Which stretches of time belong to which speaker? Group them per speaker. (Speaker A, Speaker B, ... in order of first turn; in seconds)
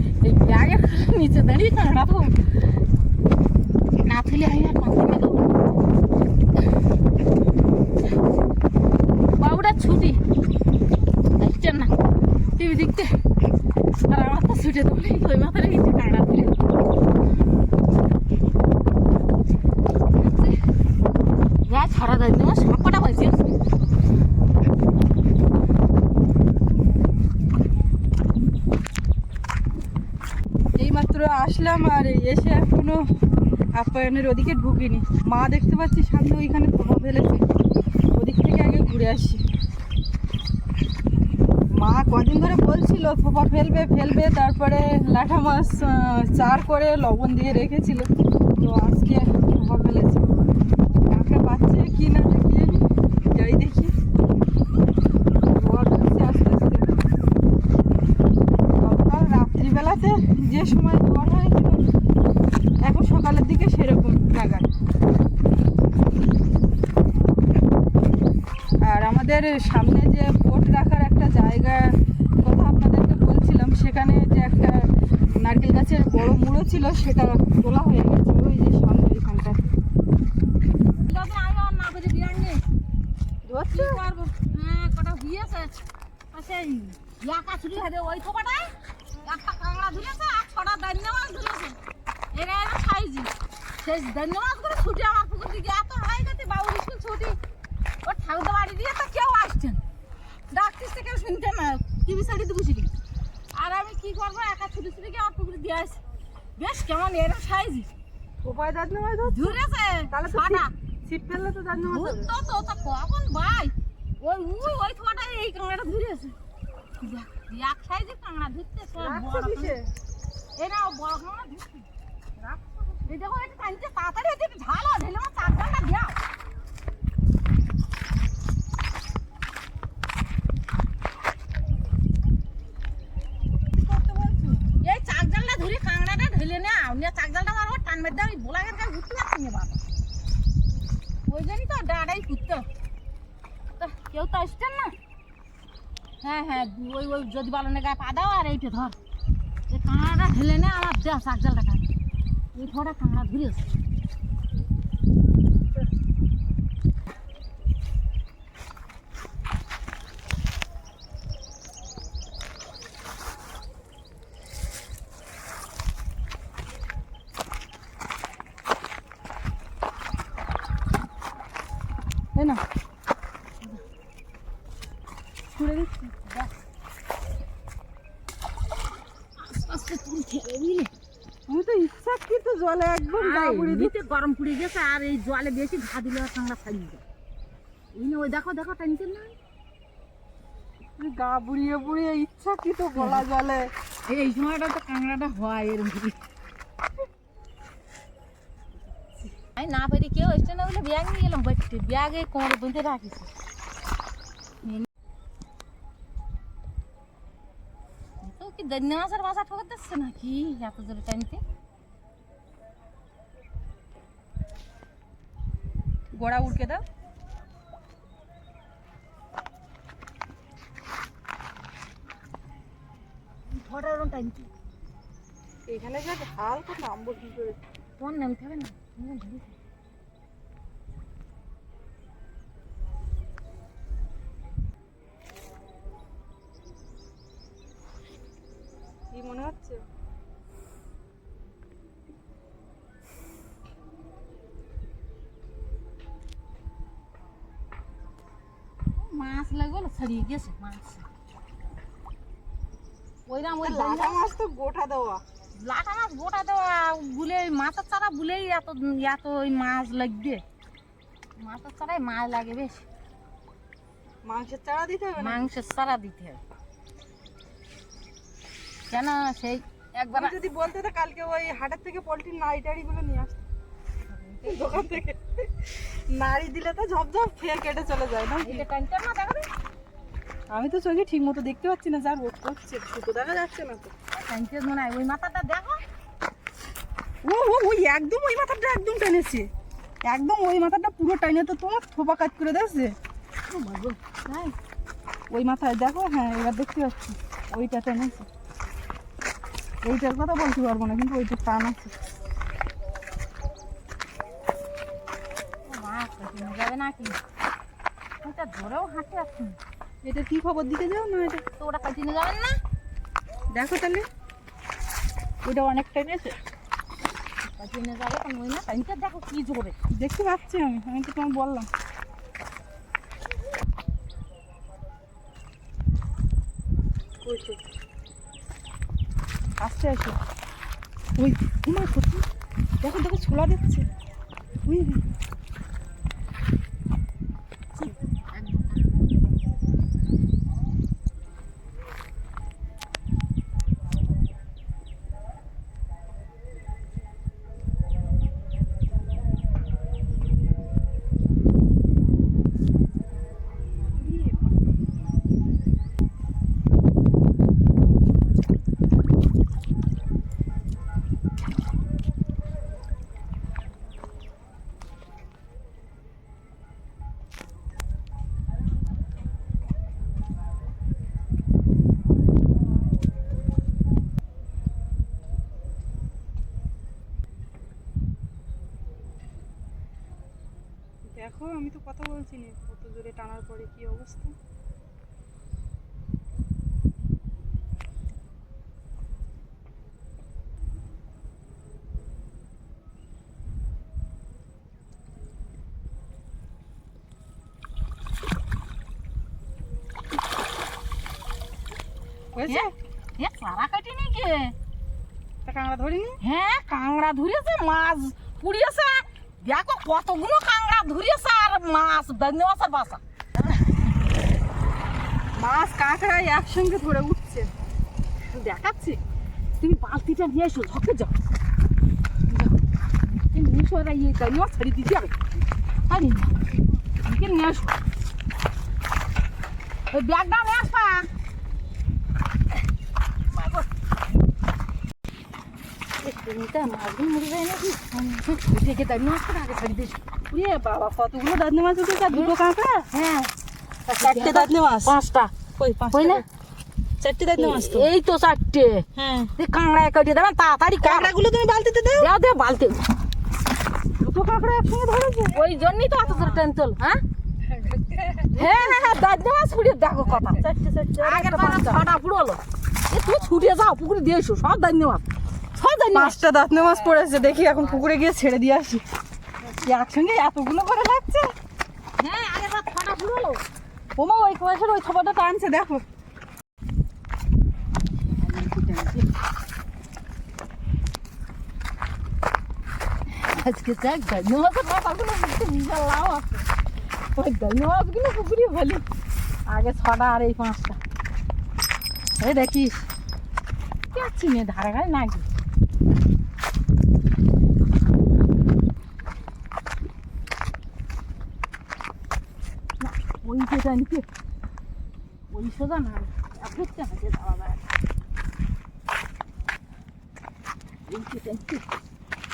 Speaker A: 0.2-2.4, 4.0-5.6, 9.4-10.2, 11.4-11.9, 12.6-13.2, 14.0-16.6, 20.2-20.6, 21.7-23.4, 81.0-82.6, 83.7-85.8, 86.3-91.8, 92.3-97.4, 98.0-99.8, 100.5-102.9, 103.5-106.0, 106.6-107.9, 109.3-110.7, 111.8-116.3, 117.0-119.8, 120.6-121.9, 123.1-126.2, 134.8-139.8, 141.3-142.7, 143.8-145.0, 146.2-149.0, 149.7-151.9, 152.6-153.7, 179.4-180.9, 183.1-187.0, 187.9-189.3, 193.0-193.2, 194.1-196.2, 199.4-203.3, 208.2-211.4, 223.5-224.5, 228.0-229.6, 249.0-251.1, 253.3-254.3, 255.6-260.4, 261.4-262.9, 265.2-266.4, 268.9-270.4, 274.1-275.0, 278.4-279.5, 284.1-285.8, 293.5-294.6, 305.7-307.2, 308.2-309.6, 311.6-312.6, 317.4-319.8, 337.8-338.9, 402.5-404.6, 406.2-413.6, 418.3-419.0, 419.6-421.1, 422.3-425.1, 425.9-426.4, 427.0-427.8, 429.9-431.1, 433.3-433.7, 436.0-440.0, 442.9-443.3, 443.9-446.2, 447.4-451.1, 452.0-452.8, 455.3-457.0, 458.3-460.4, 461.0-465.0, 465.6-467.6, 472.0-473.4, 477.9-479.1, 483.1-486.5, 487.1-488.9, 489.5-490.8, 492.2-492.8, 493.9-495.3, 502.8-504.1, 505.3-507.6, 510.9-511.6
Speaker B: 30.8-33.1, 33.8-37.5, 38.1-39.4, 41.8-50.4, 51.1-53.9, 55.5-57.0, 58.8-61.9, 62.8-64.7, 68.8-79.6, 83.5-84.1, 108.4-112.3, 119.0-119.9, 133.7-134.7, 172.3-172.6, 175.5-176.5, 181.5-183.9, 191.0-193.7, 216.2-216.8, 225.7-227.6, 239.1-239.8, 253.6-255.2, 264.2-265.4, 270.1-273.5, 274.5-278.7, 280.5-283.9, 287.2-289.5, 290.0-293.0, 295.3-298.3, 299.8-301.9, 310.0-311.4, 313.5-314.1, 315.4-316.4, 319.9-321.7, 327.2-327.6, 329.6-330.2, 331.2-332.3, 332.8-333.9, 334.7-335.0, 353.9-354.5, 381.1-384.4, 402.3-402.7, 405.4-406.2, 415.4-417.5, 440.3-442.9, 444.0-445.0, 445.6-446.2, 447.0-447.9, 449.0-449.3, 450.8-452.1, 454.0-455.4, 457.5-459.0, 460.1-461.9, 465.9-468.8, 469.6-471.3, 474.0-475.8